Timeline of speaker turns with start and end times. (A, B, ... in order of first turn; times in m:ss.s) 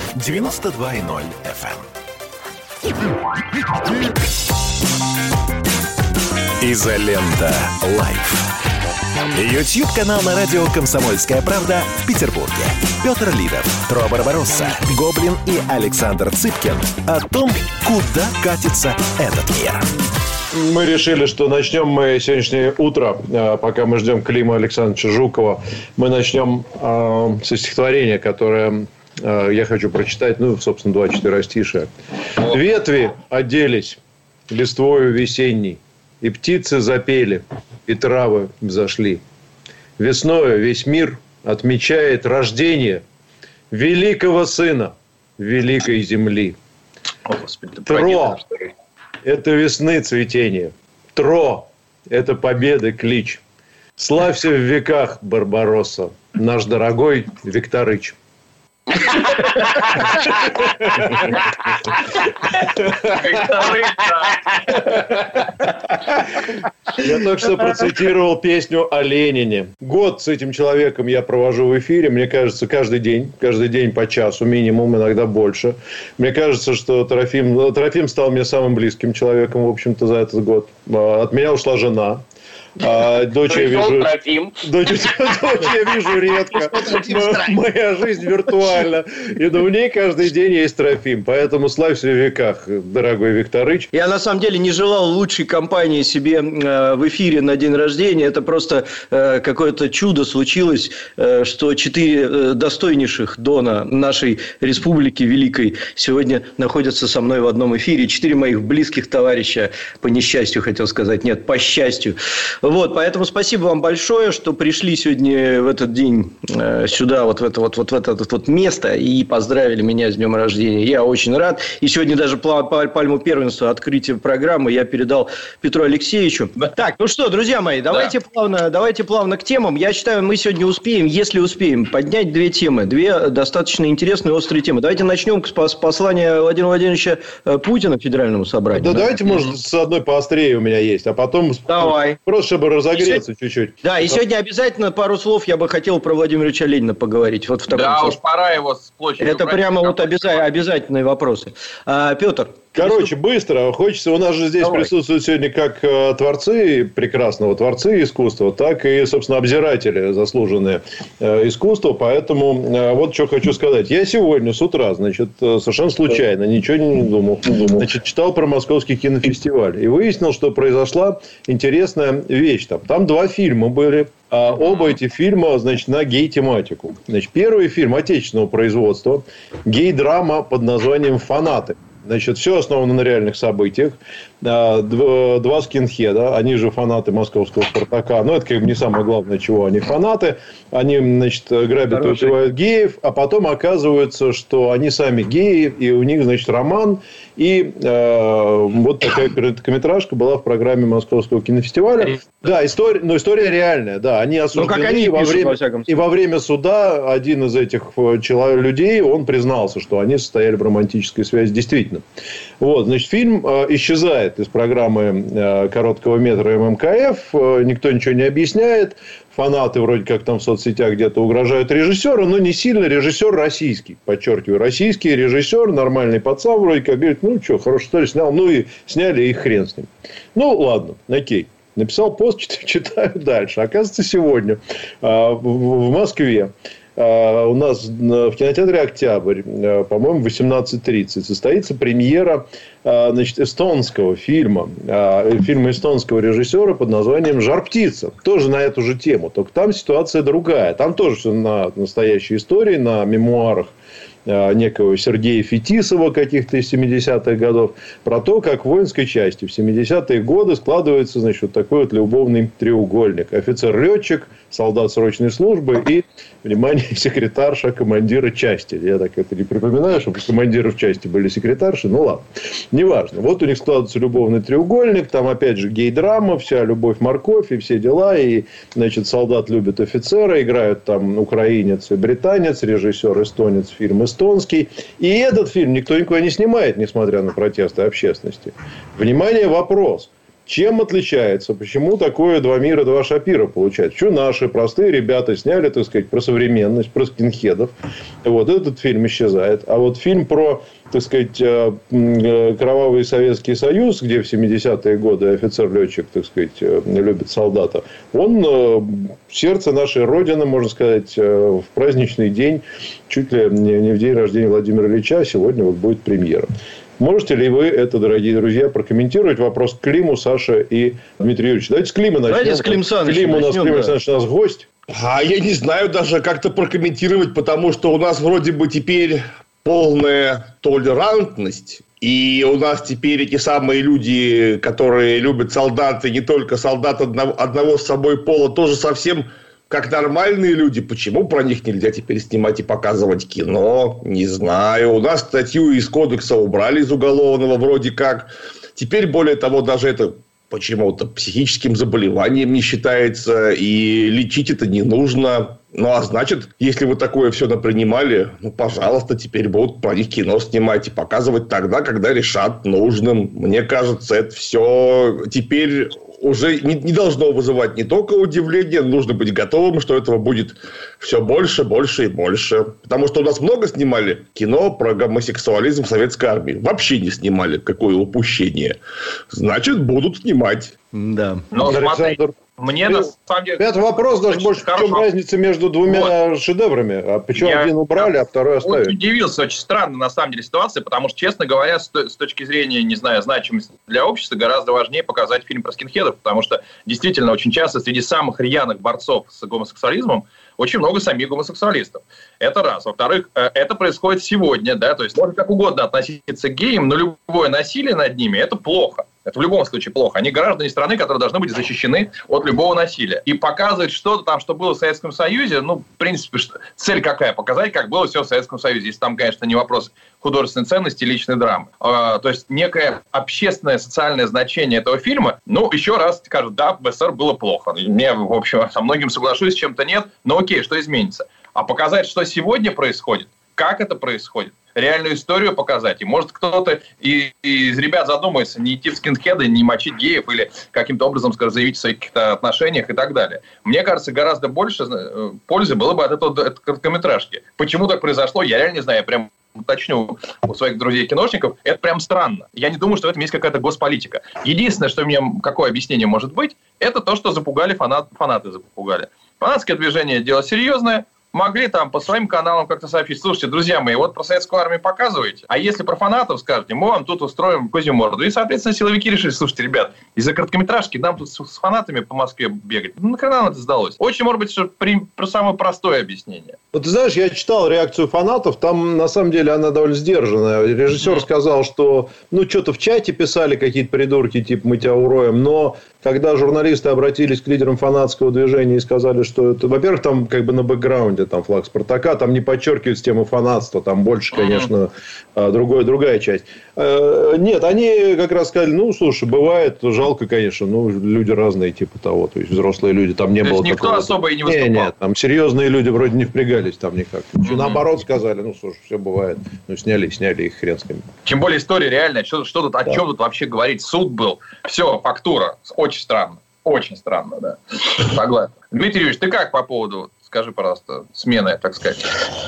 0:00.1-0:01.9 A
0:06.6-0:08.5 A
0:09.3-0:19.8 A
0:20.5-0:39.2 B
0:40.0-0:43.0 B
0:43.7-0:46.6 B
0:47.3-0:48.4 C
0:47.9-0:48.4 B
0:49.2-0:53.4 B
0:54.0-0:58.2 B
0:58.9-1:01.5 B
1:03.0-1:04.9 C
1:04.9-1:05.4 B
1:06.9-1:22.2 B
1:22.8-1:33.9 B
1:24.0-1:24.5 D
1:33.9-2:19.2 D
2:18.7-2:24.2 B
2:21.7-2:22.2 D
2:23.8-2:28.2 D
2:27.7-2:30.5 C
2:29.2-2:33.1 D
2:32.8-3:32.0 B
2:34.6-2:34.9 D
3:11.9-3:12.4 D
3:24.5-3:25.9 D
3:32.6-4:13.7 B
4:14.2-4:57.7 B
4:58.2-5:24.6 B
5:22.3-5:23.9 D
5:24.9-6:18.8 E
6:19.3-6:20.7 E
6:20.9-6:21.4 D
6:21.5-6:25.0 C
6:21.6-6:22.4 B
6:22.9-6:29.0 B
6:25.9-6:26.1 C
6:27.3-6:28.1 C
6:28.6-7:56.6 C
7:56.7-8:31.1 B
8:14.3-8:14.7 C
8:23.4-8:24.9 C
8:27.4-8:27.8 C
8:31.2-8:42.1 C